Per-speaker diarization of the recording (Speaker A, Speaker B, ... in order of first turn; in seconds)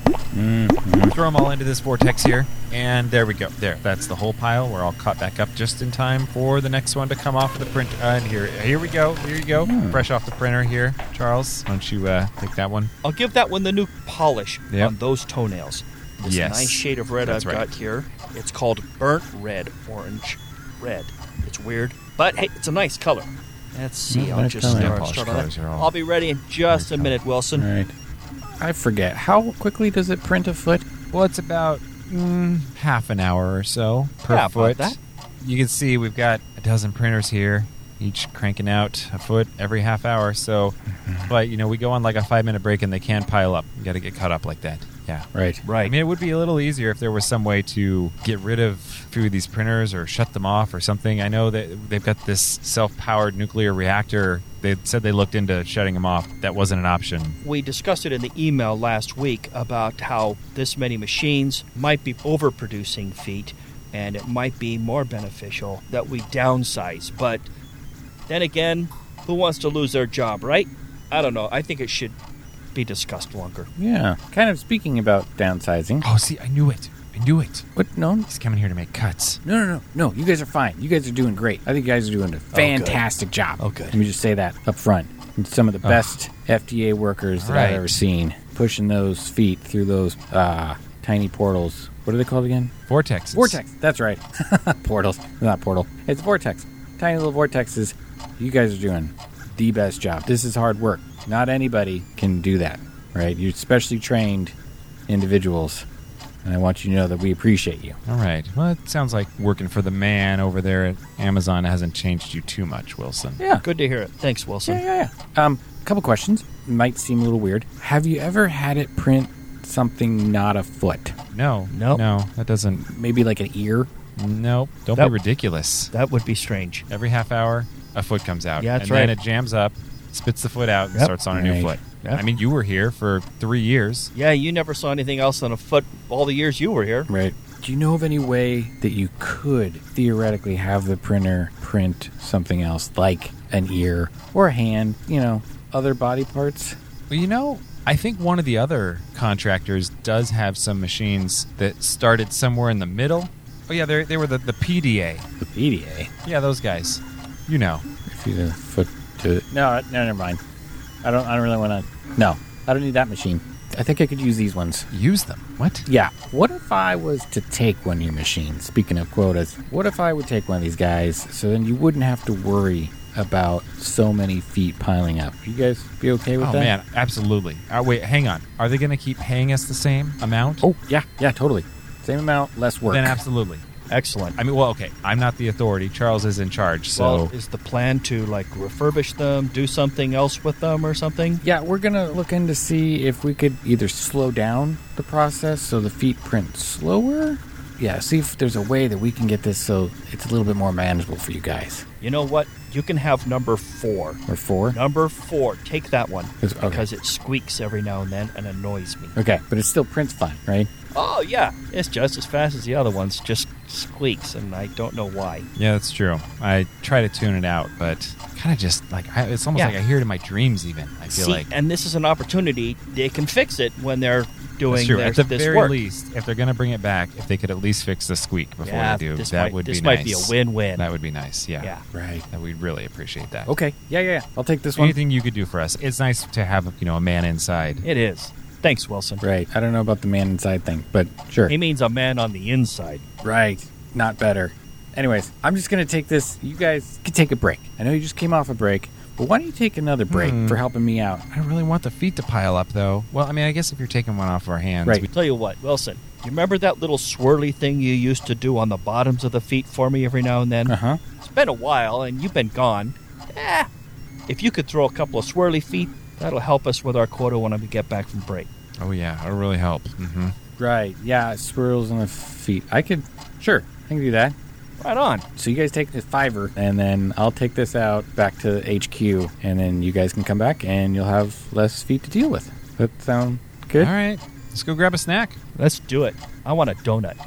Speaker A: 0.3-1.1, 9.6-10.1, 24.1-25.0, 27.6-27.9, 28.6-30.9, 40.9-41.3, 45.3-45.6, 73.8-76.0, 77.8-78.3, 79.4-92.7, 93.3-104.5, 105.1-105.9, 106.4-108.0, 114.7-121.2, 122.8-123.9, 131.3-131.8, 137.1-146.8, 155.4-156.1, 158.1-160.4, 161.0-164.9, 165.9-176.7, 180.6-183.2, 191.4-201.8, 204.3-204.8, 206.4-206.9, 209.2-210.7, 231.9-232.2, 233.5-235.0, 239.2-241.5, 243.2-251.2, 260.7-261.0, 270.6-274.4, 275.4-283.9
Speaker B: 1.0-12.9, 16.2-17.7, 24.6-25.9, 26.7-27.2, 31.1-40.8, 41.3-45.3, 45.8-57.4, 76.0-77.7, 78.3-79.4, 85.8-86.2, 87.3-88.0, 92.9-93.6, 108.1-113.4, 121.3-122.8, 124.2-125.9, 126.9-134.1, 147.1-155.2, 156.2-157.8, 164.9-165.9, 176.4-180.7, 182.9-183.7, 184.4-187.3, 215.6-221.5, 224.7-231.7, 232.3-233.5, 234.8-237.8, 250.1-250.6, 251.3-255.1, 268.8-270.3, 283.8-285.4
Speaker C: 13.0-27.7, 34.3-35.0, 45.6-46.0, 57.4-67.5, 68.3-72.2, 72.7-73.7, 82.5-83.0, 83.6-84.0, 113.6-114.8, 121.7-122.0, 125.9-126.9, 128.6-129.2, 134.1-137.1, 183.9-184.4, 186.9-191.4, 202.0-209.2, 210.9-215.5, 221.1-225.8, 228.6-230.8, 237.8-239.2, 241.5-243.0, 255.1-263.7, 264.3-268.5, 274.8-275.2, 285.6-287.2